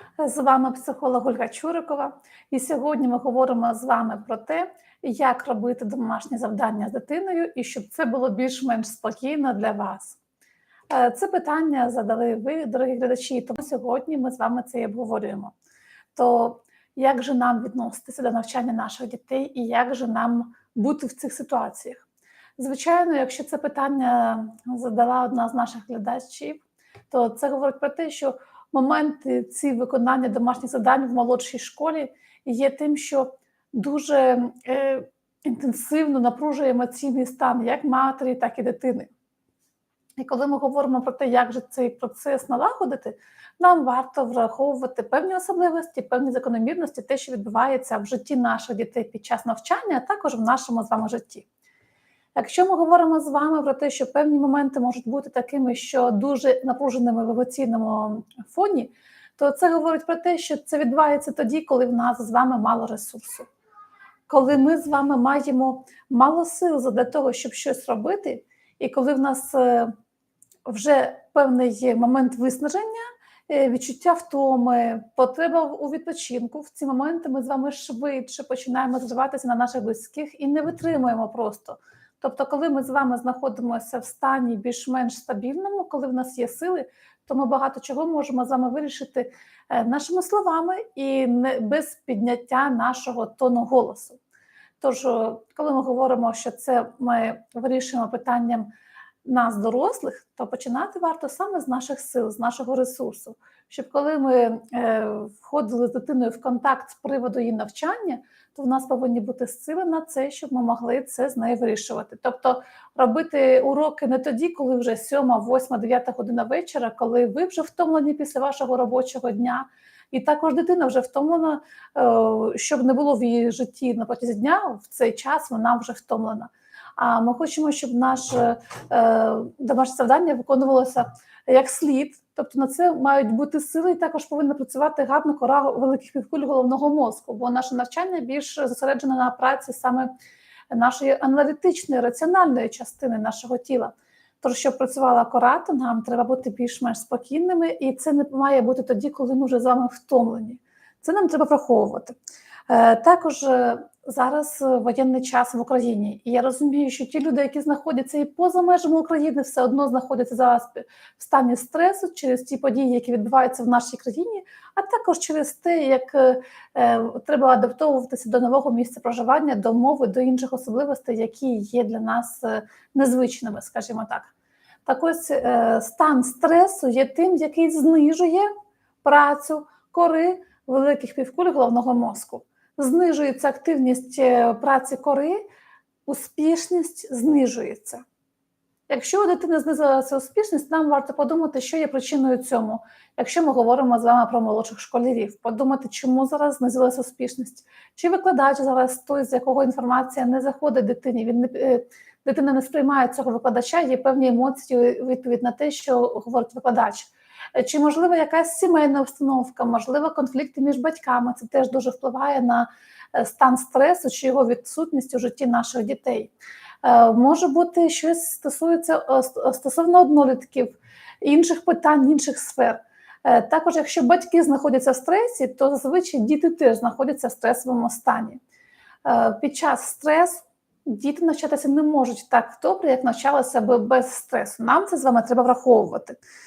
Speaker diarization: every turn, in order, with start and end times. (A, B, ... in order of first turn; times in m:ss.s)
0:00.2-0:10.2 A
0:10.9-0:15.5 A
0:16.2-0:22.1 A
0:22.6-0:39.1 A
0:40.2-0:51.5 A
0:52.4-1:03.5 A
1:04.3-1:09.9 A
1:10.7-1:34.2 A
1:34.8-1:38.7 A
1:39.2-2:20.1 A
2:20.7-2:32.2 A
2:32.7-2:54.3 A
2:54.9-2:58.5 A
2:59.0-3:05.4 A
3:06.1-3:08.0 A
3:08.9-3:36.3 A
3:36.8-3:48.4 A
3:49.0-3:56.2 A